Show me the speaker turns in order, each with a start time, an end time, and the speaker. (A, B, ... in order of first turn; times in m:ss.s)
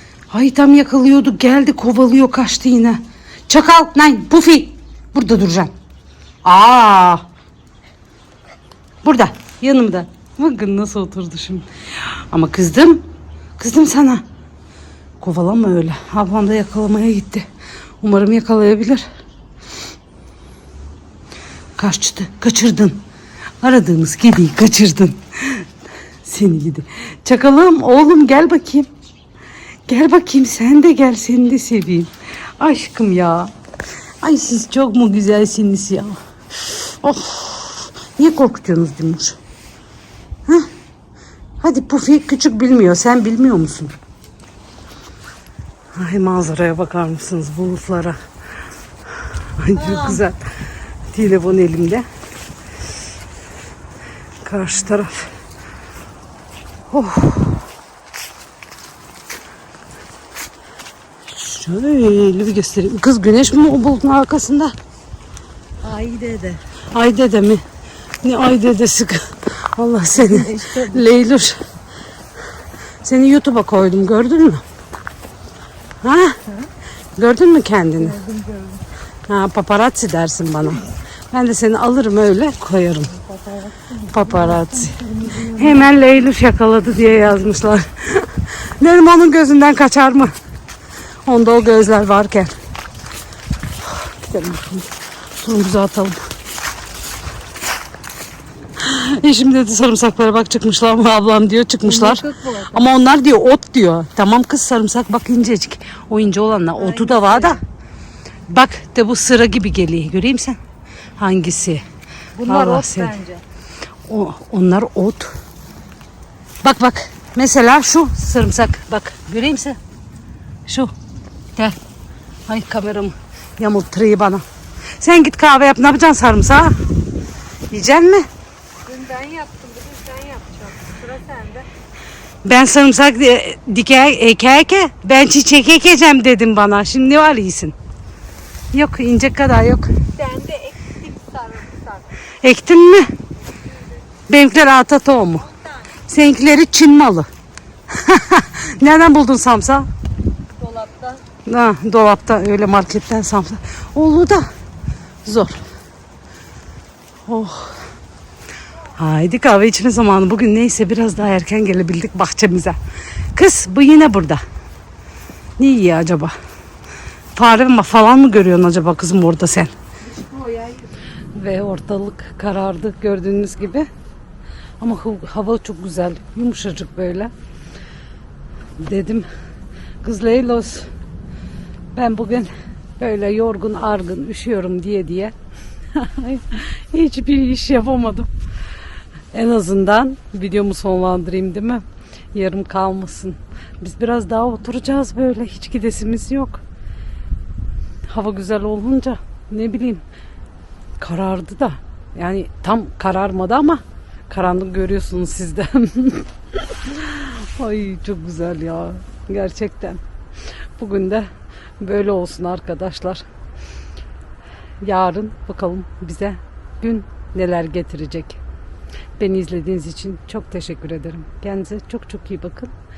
0:00.3-0:05.7 A
0:06.4-0:07.2 A
0:09.0-0:14.2 A
0:15.2-0:17.5 A
0:18.0-0:19.0 A
0:21.8-0:23.0 A
0:23.6-0:25.7 A
0:26.2-0:28.9 A
0:29.9-0:33.5 A
0:34.2-0:39.4 A
0:41.6-0:44.0 A
0:45.9-0:48.2 A
0:49.5-0:50.5 A
0:51.1-0:52.1 A
0:54.4-0:55.3 A
0:56.9-0:57.6 A
1:01.3-1:04.7 A
1:05.8-1:06.6 B
1:06.9-1:07.6 A
1:08.2-1:11.6 A
1:10.3-1:11.0 B
1:13.0-1:14.6 A
1:16.0-1:16.4 A
1:17.1-1:18.2 A
1:18.2-1:18.8 B
1:19.2-1:23.3 A
1:23.3-1:24.2 B
1:24.0-1:30.3 A
1:24.9-1:25.5 B
1:31.2-1:32.5 A
1:33.9-1:36.2 A
1:38.8-1:47.6 A
1:41.9-1:42.8 B
1:46.9-1:47.6 B
1:48.5-1:50.6 A
1:51.2-1:51.8 A
1:52.4-1:53.4 B
1:52.4-1:53.2 A
1:54.1-1:55.4 A
1:56.6-1:59.8 A
2:00.6-2:00.9 A
2:02.5-2:04.4 A
2:05.0-2:06.9 A
2:07.7-2:08.3 A
2:08.8-2:11.7 B
2:12.4-2:17.8 A
2:18.7-2:19.9 A
2:20.1-2:22.1 B
2:22.4-2:23.1 A
2:24.3-2:27.3 A
2:27.9-2:29.9 A
2:30.6-2:31.2 B
2:31.4-2:34.5 A
2:35.2-2:35.6 A
2:37.2-2:37.8 A
2:38.9-2:42.8 A
2:43.3-2:44.4 A
2:45.6-2:46.3 A
2:47.3-2:49.7 A
2:51.3-2:53.9 A
2:54.8-2:57.3 A
2:58.8-2:59.3 A
3:00.0-3:00.9 A
3:01.9-3:05.3 A
3:05.9-3:08.3 A
3:09.3-3:16.6 A
3:18.0-3:20.0 A
3:21.0-3:30.0 A
3:30.8-3:33.2 A
3:34.8-3:38.4 A
3:39.2-3:42.7 A